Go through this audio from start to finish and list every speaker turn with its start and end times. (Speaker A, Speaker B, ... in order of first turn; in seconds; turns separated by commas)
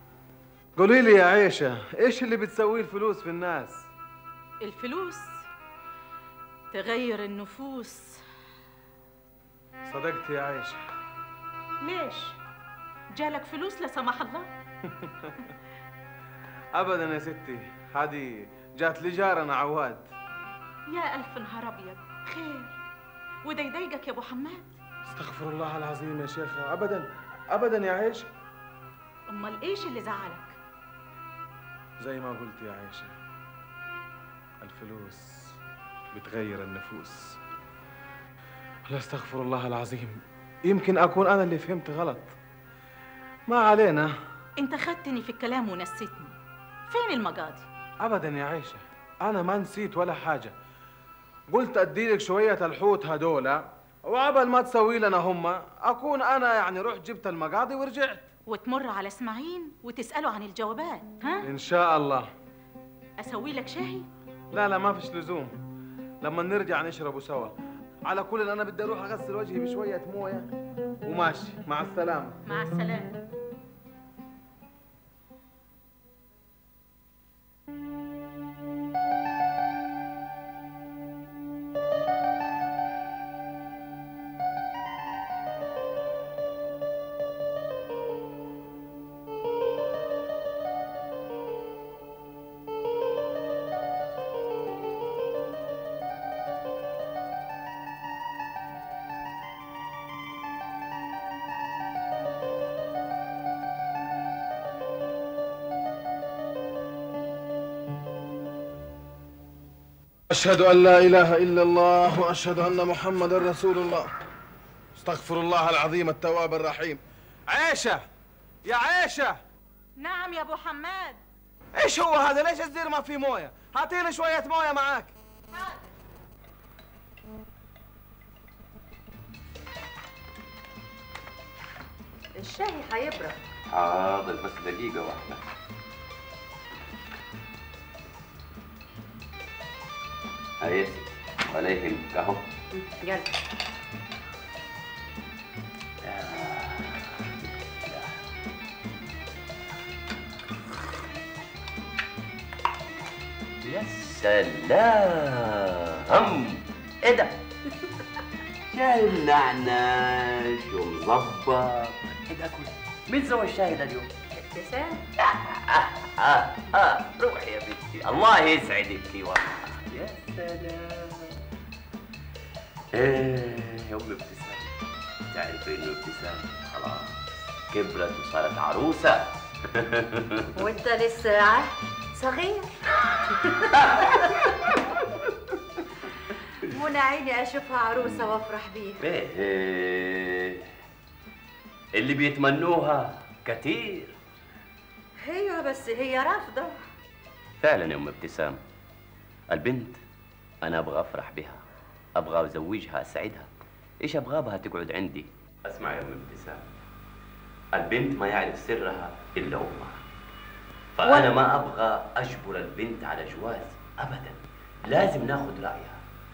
Speaker A: 0.8-3.9, Speaker B: 4.6-5.4, Speaker B: 6.7-8.2, Speaker A: 9.8-10.8, Speaker B: 11.8-12.4, Speaker B: 13.1-14.5, Speaker A: 14.8-15.5, Speaker A: 16.8-20.1, Speaker B: 20.9-22.8, Speaker B: 23.4-24.8, Speaker A: 25.1-28.3, Speaker B: 29.3-30.6, Speaker A: 32.0-33.1, Speaker A: 34.6-35.5, Speaker A: 36.1-37.4, Speaker A: 38.9-42.3, Speaker A: 43.5-44.1, Speaker B: 44.6-46.4, Speaker B: 46.9-47.6, Speaker A: 48.0-50.5, Speaker A: 51.5-58.3, Speaker B: 58.5-61.5, Speaker A: 61.4-62.3, Speaker B: 63.2-64.0, Speaker A: 64.5-65.5, Speaker A: 66.2-67.5, Speaker A: 68.0-70.5, Speaker A: 71.0-72.4, Speaker B: 72.5-73.2, Speaker A: 110.3-114.1, Speaker A: 115.0-118.0, Speaker A: 118.7-119.4, Speaker B: 120.0-121.2, Speaker A: 121.8-125.1, Speaker C: 132.3-133.4, Speaker D: 133.7-135.4, Speaker D: 140.6-142.4, Speaker C: 142.7-143.3, Speaker D: 146.0-147.1, Speaker D: 147.8-148.1, Speaker D: 153.6-157.3, Speaker D: 158.7-164.1, Speaker C: 164.3-165.0, Speaker D: 165.2-171.3, Speaker D: 172.9-174.7, Speaker D: 175.3-177.1, Speaker D: 177.7-180.4, Speaker C: 180.5-182.7, Speaker C: 186.7-189.0, Speaker D: 189.0-190.7, Speaker D: 191.9-194.2, Speaker C: 195.2-196.7, Speaker D: 197.6-198.6, Speaker D: 199.5-200.0, Speaker D: 200.6-201.6, Speaker D: 202.2-203.5, Speaker D: 204.0-206.6, Speaker D: 207.7-209.9, Speaker D: 210.9-216.0